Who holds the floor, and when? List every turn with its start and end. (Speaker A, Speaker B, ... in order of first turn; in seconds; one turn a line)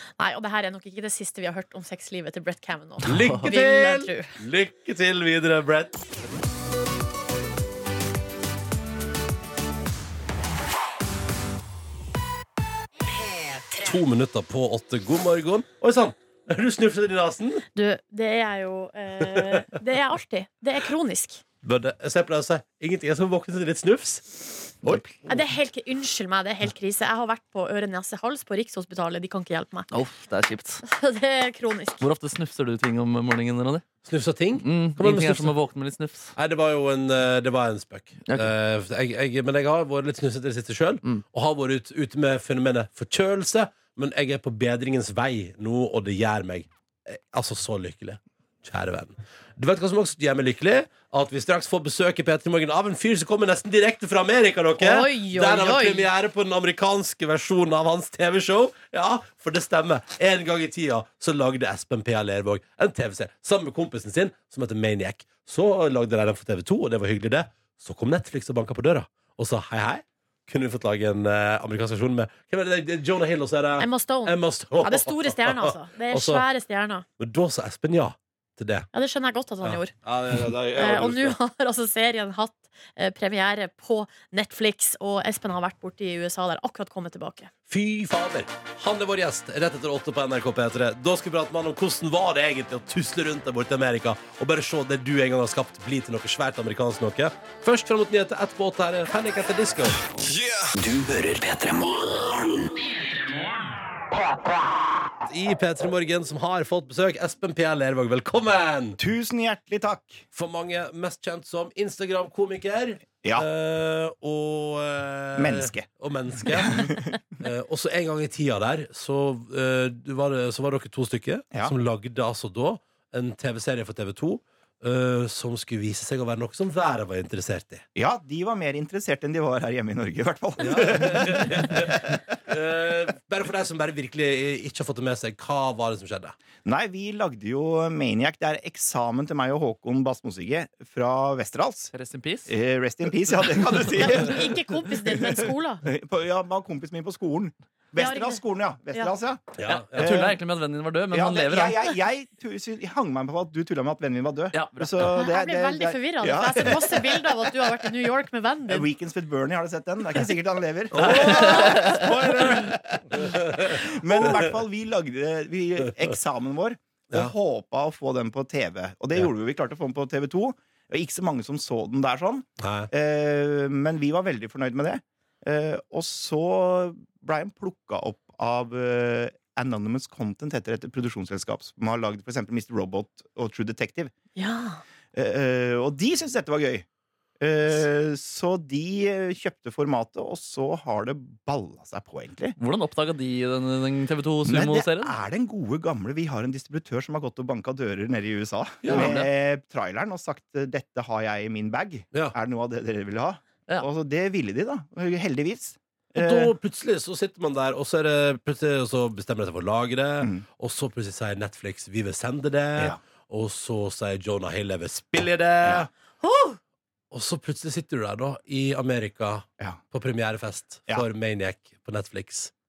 Speaker A: 0.2-4.3
Speaker B: 3.0-6.0
Speaker C: 3.1-3.4
Speaker D: 13.3-13.7
Speaker B: 13.8-17.6
Speaker A: 17.8-21.4
Speaker B: 19.2-19.6
Speaker B: 21.6-25.0
Speaker A: 25.3-29.9
Speaker C: 29.9-30.8
Speaker A: 30.8-32.0
Speaker C: 32.0-33.9
Speaker B: 34.0-35.5
Speaker C: 34.6-36.3
Speaker B: 36.4-76.5
Speaker A: 54.8-56.1
Speaker A: 73.8-77.1
Speaker B: 77.2-78.9
Speaker A: 78.9-79.9
Speaker B: 79.6-81.4
Speaker A: 80.8-87.5
Speaker B: 87.7-100.0
Speaker D: 100.7-102.7
Speaker B: 105.3-109.0
Speaker E: 109.0-110.3
Speaker B: 110.3-127.8
Speaker E: 115.4-115.9
Speaker E: 116.4-117.2
Speaker E: 128.0-132.2
Speaker B: 130.6-136.4
Speaker E: 136.6-141.9
Speaker C: 141.9-142.5
Speaker E: 142.5-150.4
Speaker A: 144.0-145.8
Speaker A: 148.0-148.4
Speaker B: 149.6-150.2
Speaker C: 149.7-151.9
Speaker E: 151.1-157.2
Speaker C: 154.5-155.1
Speaker A: 155.1-158.9
Speaker E: 158.7-184.1
Speaker B: 160.9-164.5
Speaker C: 161.0-162.0
Speaker B: 172.6-172.9
Speaker A: 184.4-184.8
Speaker E: 185.1-186.8
Speaker E: 187.4-192.6
Speaker C: 192.6-195.1
Speaker E: 194.4-206.5
Speaker B: 198.8-199.2
Speaker C: 198.9-199.3
Speaker B: 206.2-215.9
Speaker E: 215.6-215.9
Speaker A: 216.2-216.6
Speaker B: 217.1-222.5